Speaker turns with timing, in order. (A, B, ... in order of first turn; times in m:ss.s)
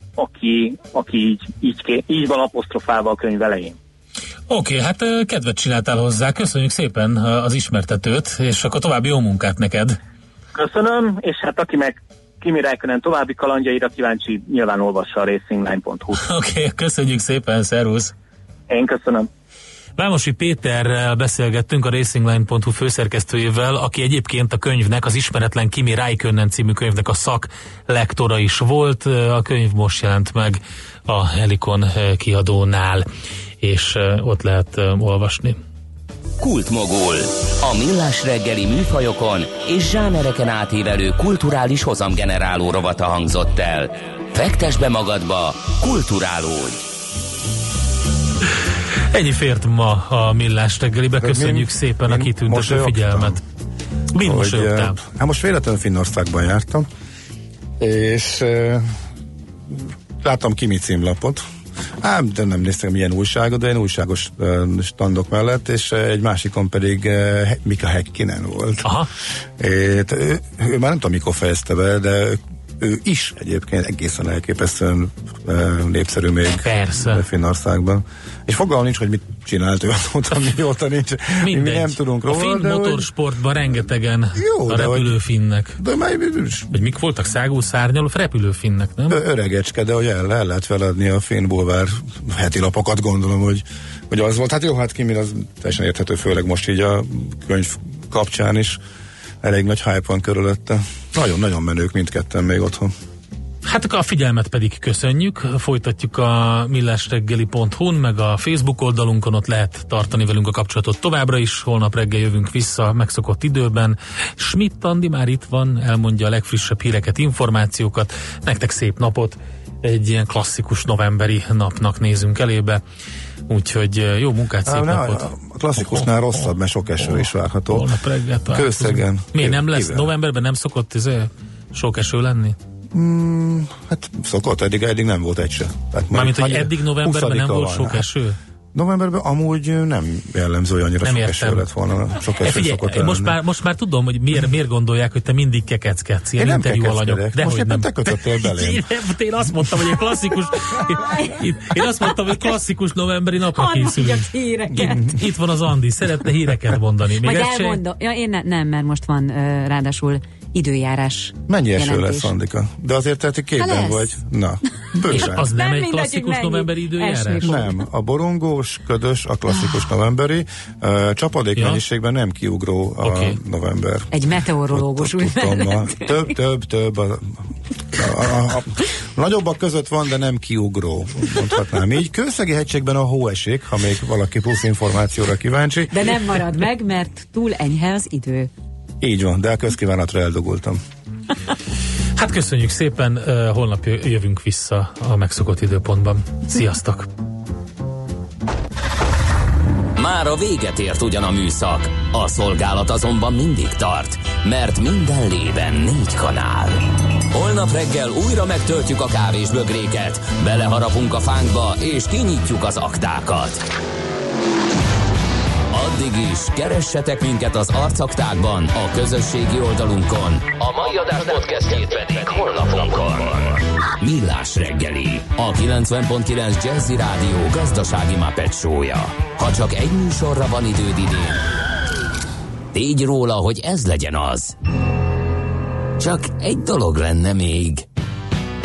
0:00.2-0:03.8 A
0:04.5-0:10.0 B
0:10.5-0:16.2 A
0:16.2-0:18.1 B
0:18.7-0:19.3 A
0:20.0-0:33.1 B
0:33.6-0:35.6 B
0:36.4-0:46.8 C
0:49.1-0:53.4 B
0:51.2-0:53.4 D
0:54.1-0:55.0 B
0:54.2-0:56.9 D
0:57.8-0:58.9 D
1:00.2-1:01.4 D
1:02.0-1:08.8 D
1:09.6-1:23.1 D
1:16.6-1:17.2 B
1:21.4-1:25.8 B
1:24.4-1:25.2 D
1:25.8-1:26.8 D
1:26.7-1:29.2 B
1:29.1-1:38.8 D
1:39.4-1:42.9 D
1:43.7-2:02.8 B
2:03.5-2:05.3 B
2:04.7-2:07.9 D
2:05.8-2:06.1 B
2:07.0-2:12.6 B
2:08.5-2:10.1 D
2:12.9-2:18.1 D
2:16.1-2:18.4 B
2:18.7-2:23.4 D
2:21.0-2:21.6 B
2:22.4-2:37.8 B
2:26.4-2:28.8 D
2:30.1-2:32.4 E
2:33.5-2:35.2 E
2:37.2-2:42.3 E
2:41.5-2:45.5 D
2:43.6-2:44.2 E
2:44.8-2:47.8 E
2:45.1-2:47.6 B
2:47.4-2:54.1 D
2:53.0-2:53.4 B
2:54.1-2:56.3 E
2:54.7-3:06.0 D
3:05.9-3:08.5 E
3:09.0-3:10.8 D
3:12.2-3:17.1 B
3:20.0-3:33.6 C
3:35.7-3:51.4 C
3:52.7-3:54.6 C
3:56.0-3:57.8 C